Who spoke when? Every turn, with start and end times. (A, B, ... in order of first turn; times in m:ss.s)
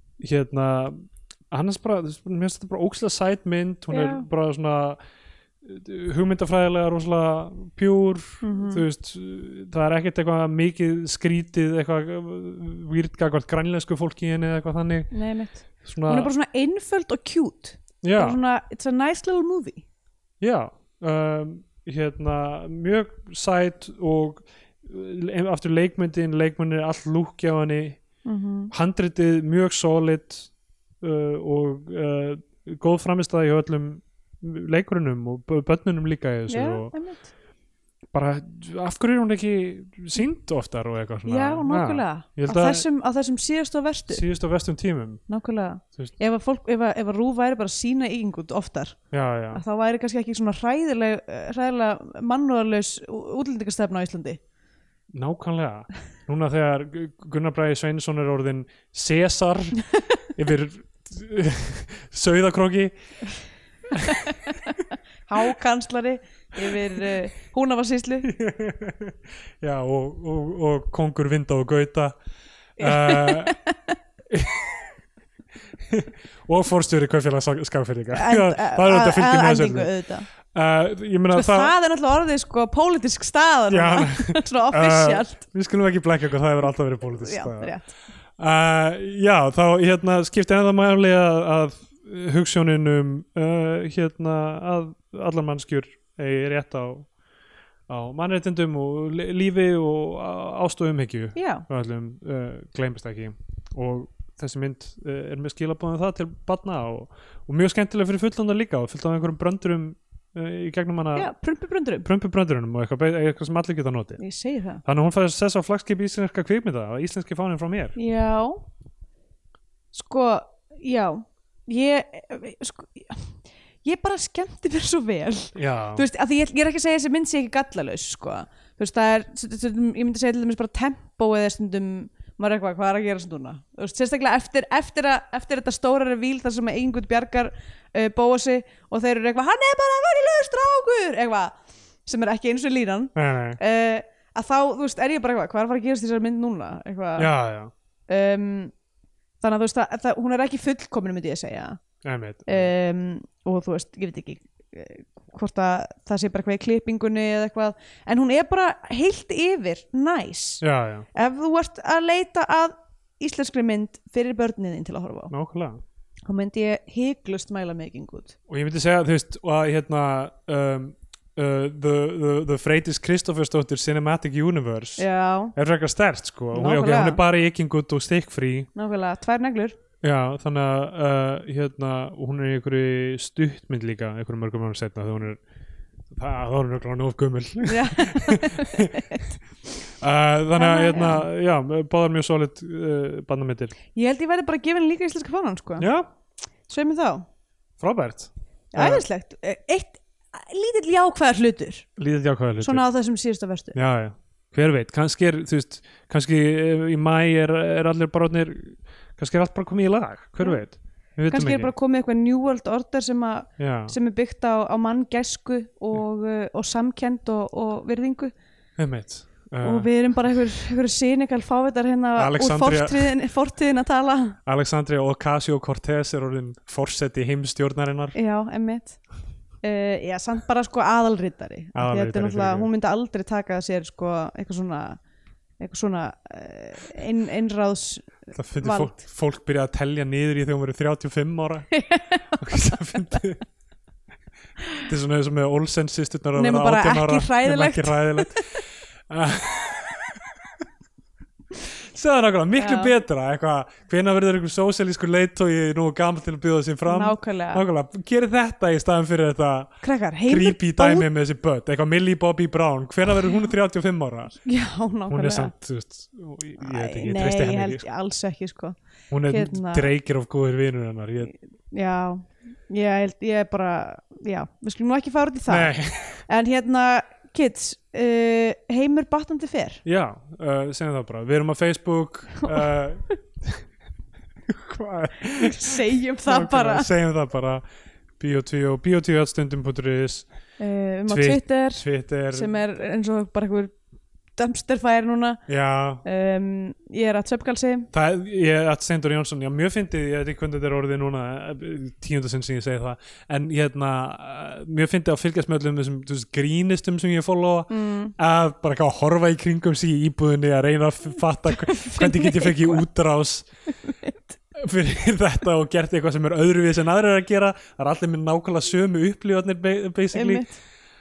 0:00.2-0:05.0 A
0:03.9-0:04.3 B
0:05.6-0:15.1 A
0:08.4-0:08.8 B
0:15.1-0:19.8 B
0:15.8-0:16.3 A
0:18.0-0:18.4 A
0:20.4-0:28.0 A
0:28.2-0:28.7 B
0:28.7-0:36.9 A
0:36.5-0:37.3 B
0:38.1-0:42.8 A
0:41.3-0:44.2 B
0:44.1-0:45.2 A
0:45.3-0:49.0 B
0:49.1-0:49.6 A
0:49.5-0:54.4 B
0:55.1-0:59.8 A
1:00.3-1:02.9 A
1:03.9-1:04.6 A
1:05.3-1:08.3 B
1:08.2-1:12.1 A
1:12.8-1:13.6 A
1:12.8-1:14.0 B
1:14.3-1:14.9 A
1:15.9-1:19.9 A
1:18.1-1:20.3 B
1:20.4-1:21.7 A
1:21.3-1:25.4 B
1:23.7-1:27.8 A
1:27.1-1:27.8 B
1:28.4-1:37.1 A
1:37.9-1:51.3 A
1:41.3-1:41.6 B
1:51.1-1:52.1 B
1:52.0-1:54.2 A
1:54.2-1:54.8 B
1:54.8-1:58.0 A
1:58.0-1:58.6 B
1:59.9-2:27.3 B
2:05.5-2:06.0 A
2:23.1-2:23.6 A
2:27.2-2:27.7 A
2:28.1-2:28.7 B
2:29.4-2:31.8 B
2:32.0-2:32.7 A
2:32.4-2:40.6 B
2:40.6-2:41.1 A
2:41.1-2:45.3 B
2:45.3-2:45.8 A
2:46.2-2:48.3 B
2:48.5-2:58.7 A
2:55.0-2:55.5 B
2:56.5-2:57.2 B
2:58.7-2:59.8 B
3:00.0-3:05.4 A
3:06.1-3:09.2 A
3:07.6-3:09.2 B
3:10.0-3:13.8 A
3:10.5-3:11.2 B
3:13.9-3:15.8 B
3:15.8-3:16.1 A
3:16.7-3:17.2 B
3:17.8-3:19.0 A
3:18.7-3:21.9 B
3:22.0-3:22.8 A
3:22.6-3:23.8 B
3:23.7-3:31.7 A
3:31.3-3:38.3 B
3:33.6-3:33.9 A
3:38.8-3:39.9 A
3:39.6-3:44.4 B
3:42.2-3:43.1 A
3:44.4-3:48.1 A
3:48.1-3:49.0 B
3:49.6-3:55.0 B
3:51.7-3:52.7 A
3:55.6-3:58.9 B
3:58.3-4:01.7 A
4:01.7-4:02.7 B
4:02.3-4:03.4 A
4:04.8-4:10.2 A
4:06.4-4:08.6 B
4:11.9-4:24.4 A
4:12.6-4:12.9 B
4:16.9-4:17.6 B
4:19.8-4:21.1 B
4:24.4-4:25.5 B
4:25.1-4:27.8 A
4:26.6-4:29.9 B
4:29.1-4:31.3 A
4:31.7-4:35.7 B
4:35.5-4:36.2 A
4:36.3-4:39.8 B
4:39.8-4:43.6 A
4:44.5-4:47.6 A
4:45.3-4:46.9 B
4:48.2-4:50.3 A
4:50.6-4:53.7 B
4:51.1-4:52.6 A
4:54.4-4:55.4 B
4:55.5-4:56.0 A
4:56.0-4:57.9 B
4:57.9-5:13.5 A
5:07.7-5:08.1 B
5:11.6-5:12.8 B
5:13.8-5:14.4 B
5:14.5-5:20.5 A
5:20.1-5:20.5 B